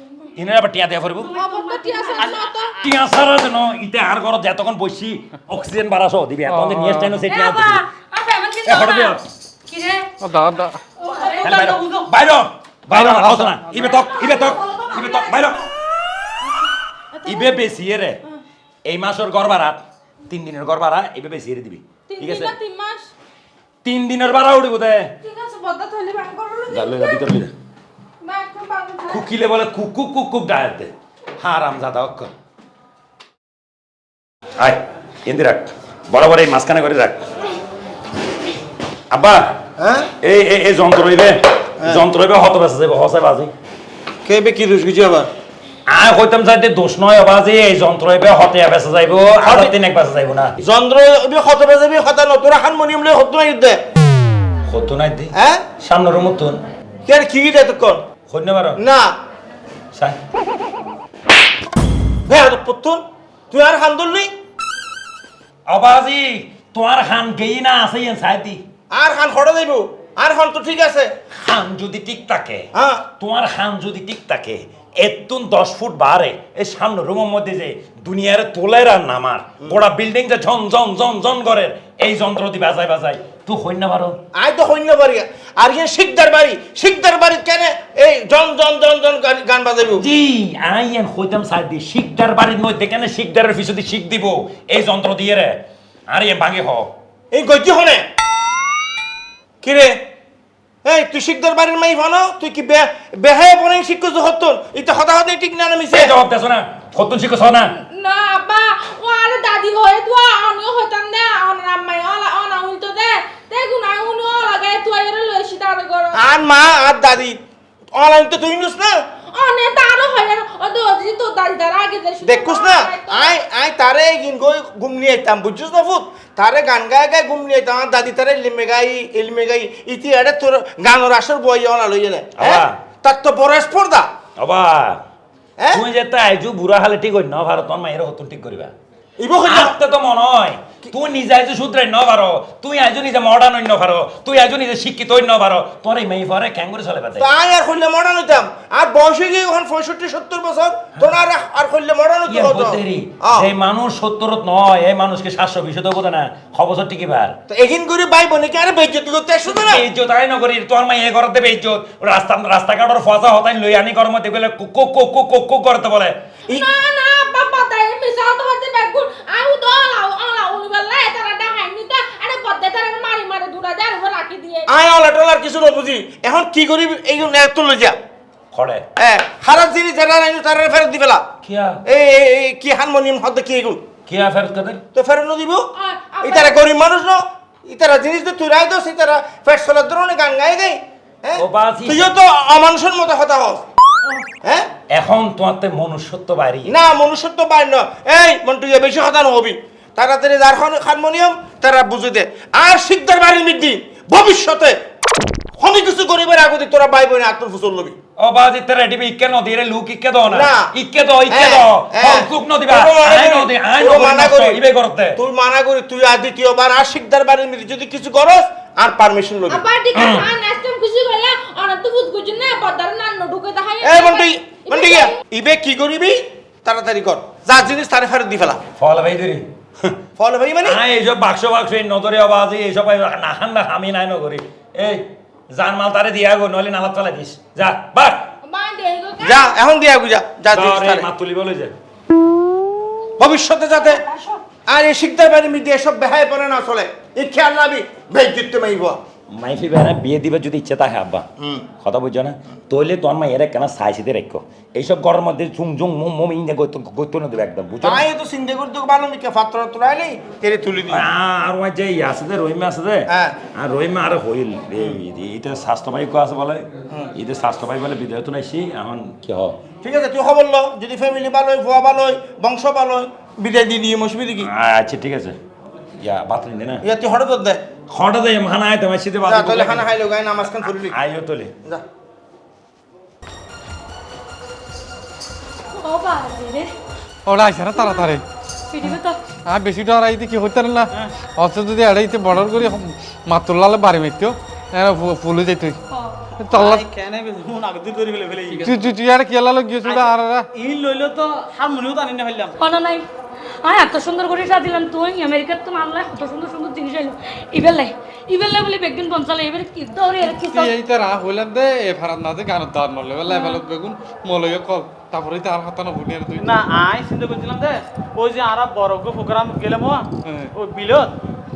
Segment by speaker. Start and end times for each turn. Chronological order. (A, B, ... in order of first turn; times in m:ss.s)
0:00.3-0:01.3 A
0:01.2-0:02.4 B
0:01.3-0:02.7 C
0:02.2-0:02.9 D
0:02.8-0:07.8 A
0:06.5-0:07.2 E
0:07.2-0:10.1 B
0:08.6-0:09.2 A
0:10.2-0:10.8 E
0:11.1-0:12.0 B
0:11.1-0:11.6 C
0:11.4-0:15.7 A
0:12.9-0:13.9 E
0:14.1-0:15.3 B
0:17.1-0:17.6 C
0:17.2-0:18.2 A
0:18.8-0:22.5 A
0:22.1-0:23.1 C
0:23.8-0:25.1 A
0:25.2-0:27.2 C
0:26.7-0:27.5 A
0:28.2-0:29.2 C
0:29.1-0:32.3 A
0:34.6-0:37.3 A
0:39.1-0:39.6 A
0:39.8-0:40.1 F
0:40.2-0:43.5 A
0:44.2-0:45.3 F
0:45.9-0:50.5 A
0:49.4-0:49.7 F
0:50.6-0:53.8 F
0:54.7-0:56.6 A
0:55.3-0:55.6 F
0:57.1-0:58.0 F
0:58.3-0:58.8 A
0:58.8-0:59.1 F
1:02.3-1:04.3 F
1:05.7-1:08.6 A
1:08.9-1:11.1 F
1:11.4-1:12.7 A
1:12.7-1:13.0 F
1:13.2-1:24.2 A
1:24.3-1:30.0 F
1:30.0-1:36.9 A
1:37.3-1:38.0 F
1:39.6-1:40.0 F
1:40.8-1:46.1 F
1:45.9-1:47.8 A
1:47.7-1:56.2 C
1:56.1-1:57.4 F
1:57.9-1:59.0 F
1:59.3-2:03.3 C
2:02.2-2:14.1 F
2:12.4-2:12.8 A
2:14.4-2:15.0 A
2:15.6-2:15.8 F
2:15.7-2:18.7 A
2:19.2-2:19.7 F
2:19.4-2:27.3 A
2:27.2-2:33.5 F
2:32.3-2:37.4 A
2:37.5-2:39.8 F
2:39.4-2:46.2 A
2:46.5-2:54.6 C
2:54.7-2:58.0 F
2:58.5-2:58.8 A
2:59.0-3:01.2 F
3:01.4-3:01.8 A
3:01.8-3:03.8 F
3:04.1-3:04.8 A
3:04.9-3:05.7 F
3:05.7-3:06.6 C
3:06.2-3:13.6 F
3:11.3-3:12.1 A
3:14.4-3:14.7 F
3:14.9-3:16.8 A
3:16.6-3:24.8 F
3:25.6-3:27.9 F
3:28.2-3:35.2 A
3:30.3-3:30.7 F
3:31.3-3:34.6 F
3:35.2-3:39.6 F
3:39.5-3:45.1 C
3:39.9-3:40.3 A
3:43.8-3:48.6 F
3:48.8-3:50.0 A
3:50.2-3:50.8 F
3:50.6-3:58.2 A
3:58.4-3:59.6 C
3:59.2-4:01.1 F
4:00.5-4:01.8 A
4:03.2-4:04.0 F
4:03.7-4:04.4 C
4:04.7-4:09.0 F
4:09.3-4:11.2 A
4:11.4-4:11.6 F
4:11.8-4:18.0 A
4:17.8-4:21.1 F
4:20.9-4:29.6 A
4:23.1-4:23.4 F
4:29.8-4:34.5 F
4:34.4-4:35.4 A
4:36.0-4:36.8 A
4:36.8-4:37.6 F
4:37.9-4:39.9 A
4:39.3-4:41.0 F
4:40.6-4:41.5 A
4:45.7-4:46.7 B
4:47.3-4:48.2 E
4:47.8-4:48.1 B
4:48.7-4:49.2 B
4:49.4-4:55.8 E
4:55.9-4:56.2 B
4:56.4-4:56.8 E
4:56.5-4:58.7 D
4:58.6-5:00.5 E
4:59.8-5:02.5 D
5:02.6-5:03.0 B
5:03.6-5:10.7 B
5:10.2-5:16.5 E
5:13.3-5:13.6 B
5:16.4-5:21.1 D
5:20.2-5:20.5 E